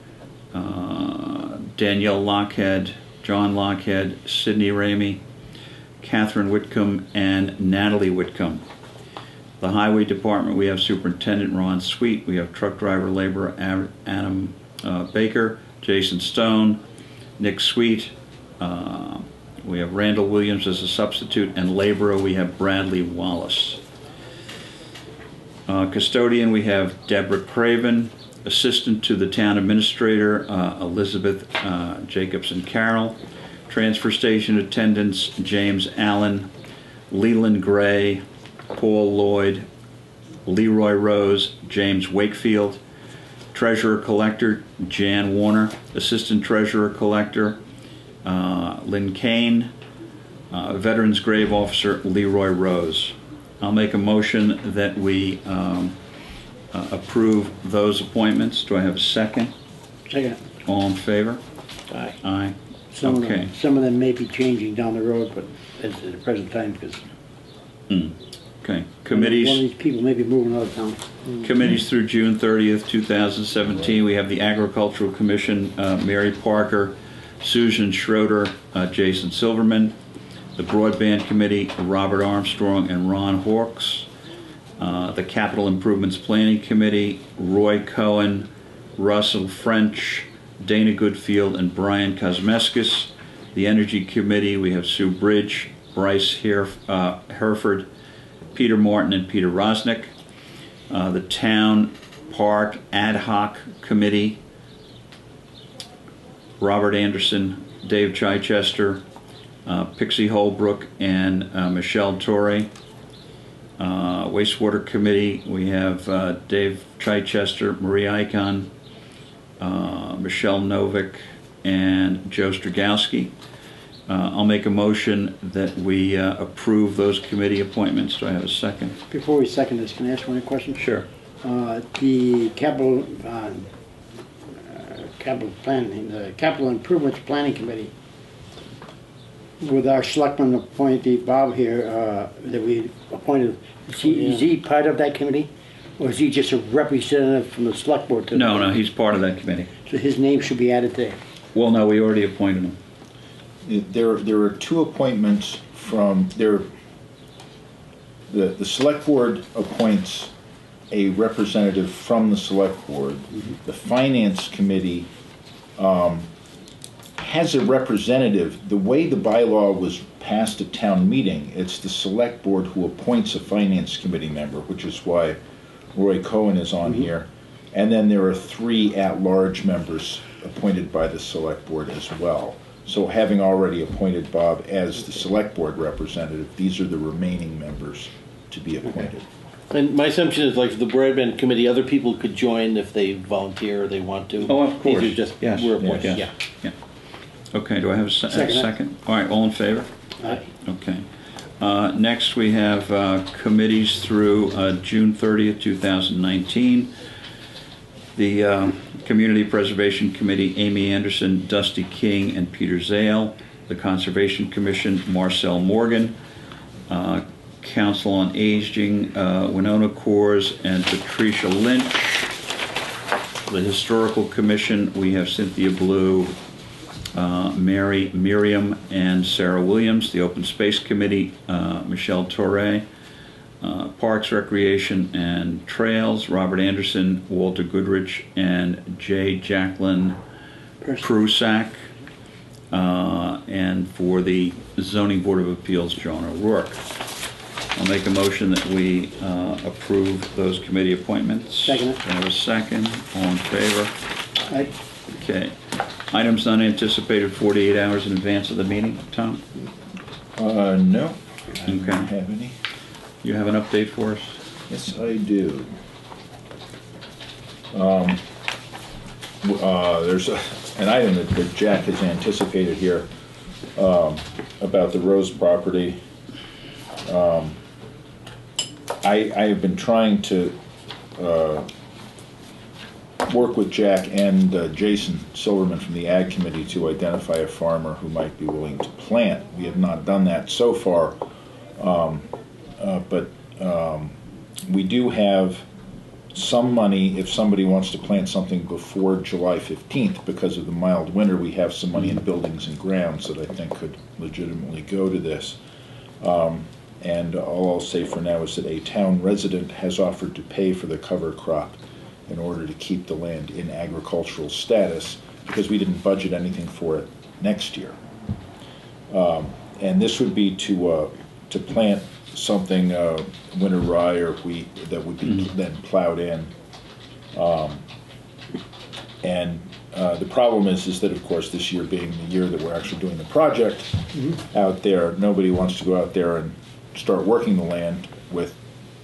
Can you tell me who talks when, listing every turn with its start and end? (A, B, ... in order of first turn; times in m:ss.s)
0:00.5-0:05.2 A
0:06.0-0:08.6 A
0:09.6-0:16.8 A
0:17.4-0:23.8 A
0:25.7-0:33.2 A
0:33.7-0:36.5 A
0:37.1-0:39.7 A
0:40.5-0:42.8 A
0:43.5-0:47.6 A
0:48.2-0:49.7 A
0:50.5-0:56.0 A
0:56.7-0:59.5 A
1:00.1-1:00.4 B
1:00.7-1:01.4 A
1:01.9-1:02.2 C
1:02.2-1:03.5 A
1:02.9-1:07.0 B
1:07.9-1:09.6 A
1:09.1-1:11.2 B
1:11.4-1:20.0 A
1:20.6-1:24.1 A
1:24.8-1:37.9 A
1:38.5-1:40.1 A
1:40.9-1:44.4 A
1:46.6-1:49.0 A
1:49.6-1:52.7 A
1:53.8-1:58.7 A
1:59.6-2:03.3 A
2:04.1-2:09.0 A
2:09.1-2:10.9 B
2:10.8-2:11.1 A
2:11.4-2:13.7 B
2:14.7-2:17.9 B
2:19.6-2:28.7 B
2:24.1-2:24.4 C
2:28.3-2:29.7 A
2:29.9-2:31.2 B
2:31.5-2:32.8 A
2:33.6-2:36.7 D
2:38.3-2:40.3 D
2:40.9-2:45.1 D
2:45.8-2:46.3 D
2:47.2-2:55.4 D
2:56.0-3:09.3 D
3:09.7-3:16.3 C
3:14.4-3:16.7 A
3:15.8-3:16.2 D
3:17.5-3:20.0 A
3:18.3-3:18.7 B
3:20.6-3:21.0 A
3:21.6-3:26.9 A
3:28.2-3:36.2 A
3:36.9-3:42.2 A
3:43.5-3:46.4 A
3:47.1-3:52.8 A
3:53.6-4:00.2 A
4:00.8-4:01.1 B
4:01.0-4:01.8 A
4:02.7-4:06.8 A
4:07.8-4:13.9 A
4:11.6-4:12.0 B
4:15.1-4:15.6 A
4:16.1-4:19.4 A
4:20.4-4:22.6 D
4:21.7-4:22.1 A
4:23.2-4:24.4 A
4:24.7-4:25.7 D
4:27.7-4:28.2 D
4:29.4-4:33.1 D
4:33.8-4:36.0 D
4:37.0-4:37.6 D
4:39.0-4:40.6 D
4:41.2-4:41.7 D
4:43.3-4:51.2 D
4:51.8-4:55.6 D
4:56.3-5:05.6 D
5:06.2-5:18.0 D
5:19.1-5:26.5 D
5:27.3-5:27.8 D
5:29.2-5:38.6 D